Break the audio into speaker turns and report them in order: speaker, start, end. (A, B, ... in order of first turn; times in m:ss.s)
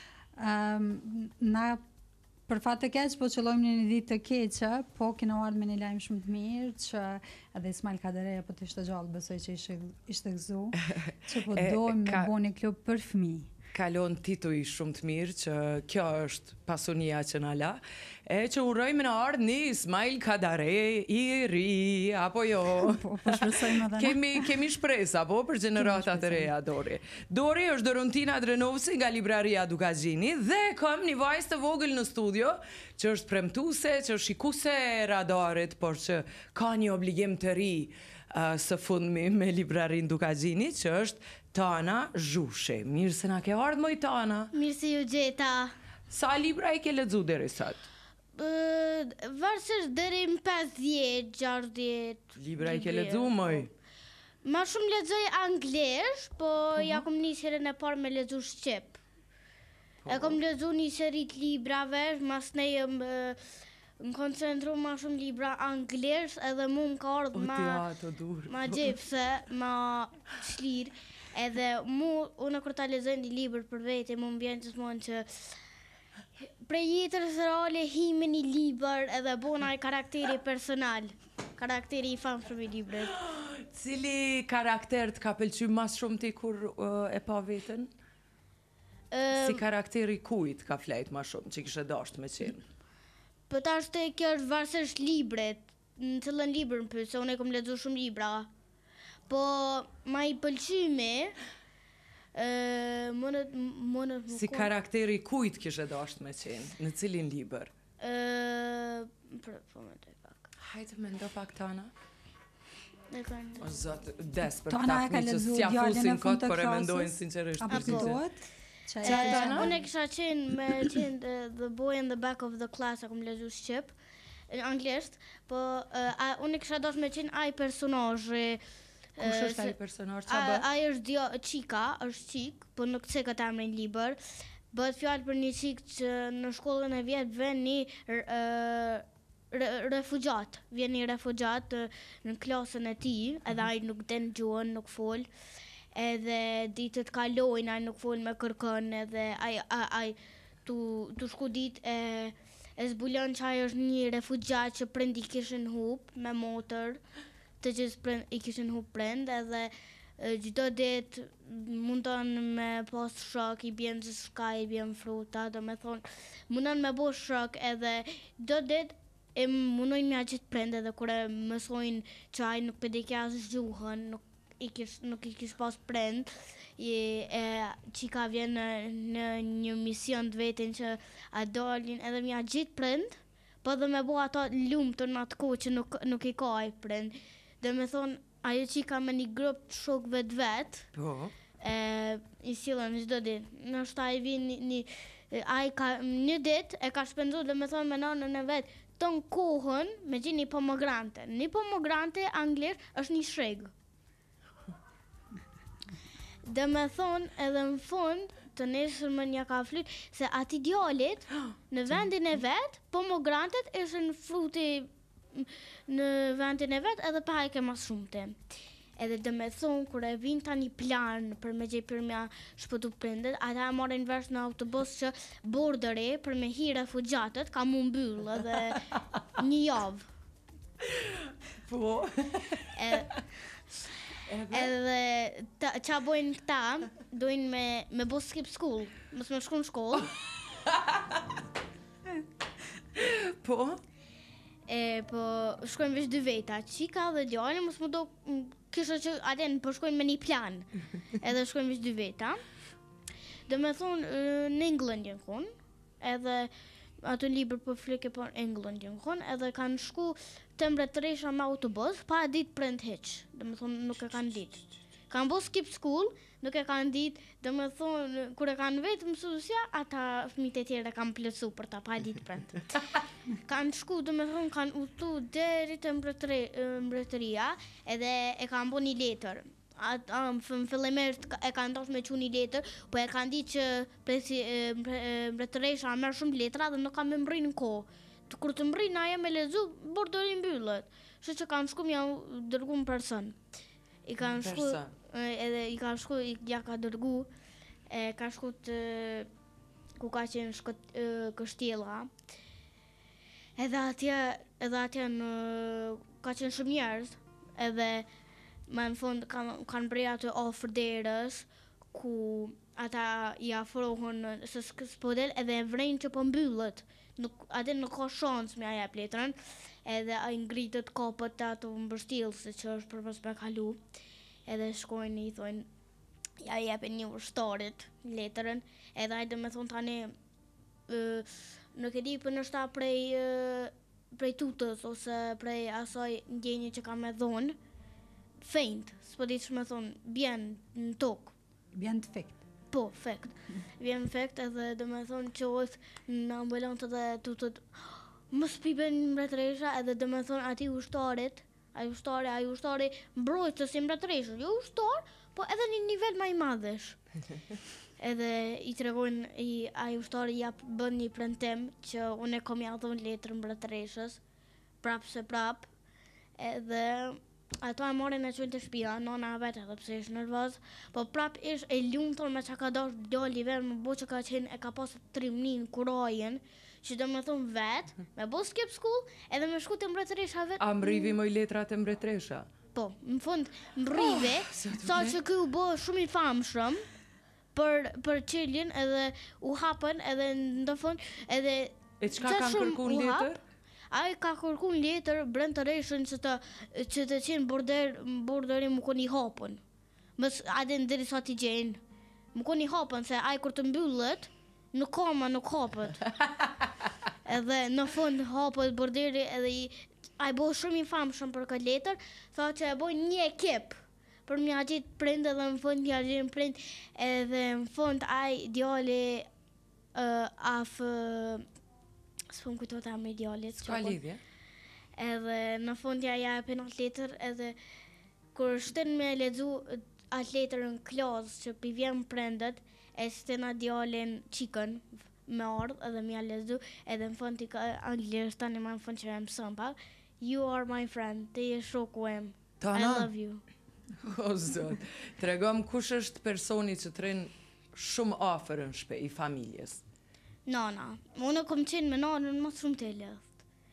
0:00.4-0:01.8 A
0:02.5-0:13.5 A
0:10.8-0:12.3 B
0:13.7-0:44.5 B
0:22.7-0:24.5 A
0:25.8-0:26.5 A
0:44.5-0:45.7 C
0:46.1-0:47.9 B
0:48.4-0:53.7 C
0:52.4-0:53.7 B
0:54.4-0:59.0 C
0:56.8-0:57.1 B
1:00.0-1:00.4 B
1:00.1-1:07.8 C
1:07.3-1:09.0 B
1:08.5-1:15.6 C
1:16.4-1:23.2 C
1:23.1-1:27.9 B
1:29.1-1:29.6 C
1:29.3-1:32.7 B
1:33.5-1:38.5 C
1:39.3-1:41.4 C
1:42.4-1:44.7 C
1:44.3-1:47.7 B
1:48.0-1:50.5 C
1:50.6-1:51.9 B
1:53.1-1:53.6 C
1:53.6-1:58.2 B
1:54.7-1:59.8 A
1:57.7-1:58.1 C
1:59.0-2:04.0 C
1:59.0-1:59.7 B
2:04.5-2:08.6 C
2:09.2-2:09.8 C
2:09.2-2:10.7 B
2:10.3-2:14.2 C
2:14.7-2:25.3 C
2:25.9-2:37.0 C
2:37.6-3:10.9 C
3:11.0-3:11.3 B
3:11.6-3:23.7 C
3:26.4-3:38.4 C
3:39.0-3:50.1 C
3:50.8-3:53.2 B
3:52.8-3:53.2 C
3:54.2-3:54.7 B
3:54.5-4:00.1 C
4:00.6-4:01.4 B
4:03.0-4:03.8 B
4:04.7-4:12.4 C
4:13.5-4:15.5 C
4:16.0-4:16.5 C
4:17.0-4:32.8 C
4:33.3-4:53.4 C
4:54.0-4:57.3 C
4:54.4-4:54.9 B
4:57.9-4:59.3 C
5:00.0-5:02.1 C
5:03.6-5:08.1 C
5:08.7-5:23.8 C
5:24.5-5:25.7 C
5:26.4-5:30.1 C
5:30.9-5:37.6 C
5:38.4-5:41.3 C
5:41.7-5:42.4 A
5:42.7-5:57.0 C
5:58.0-6:04.2 C
6:04.8-6:05.7 C
6:06.4-6:21.2 C
6:20.6-6:22.5 B
6:22.8-6:26.8 C
6:23.9-6:25.2 B
6:27.6-6:33.3 C
6:32.0-6:33.4 B
6:33.9-6:39.6 C
6:40.2-6:41.8 C
6:42.3-6:46.1 C
6:47.2-6:59.3 C
7:00.0-7:01.5 C
7:02.3-7:04.0 C
7:03.6-7:04.2 B
7:05.0-7:07.6 C
7:08.4-7:23.4 C
7:22.6-7:23.1 B
7:24.0-7:29.8 B
7:30.5-7:33.4 C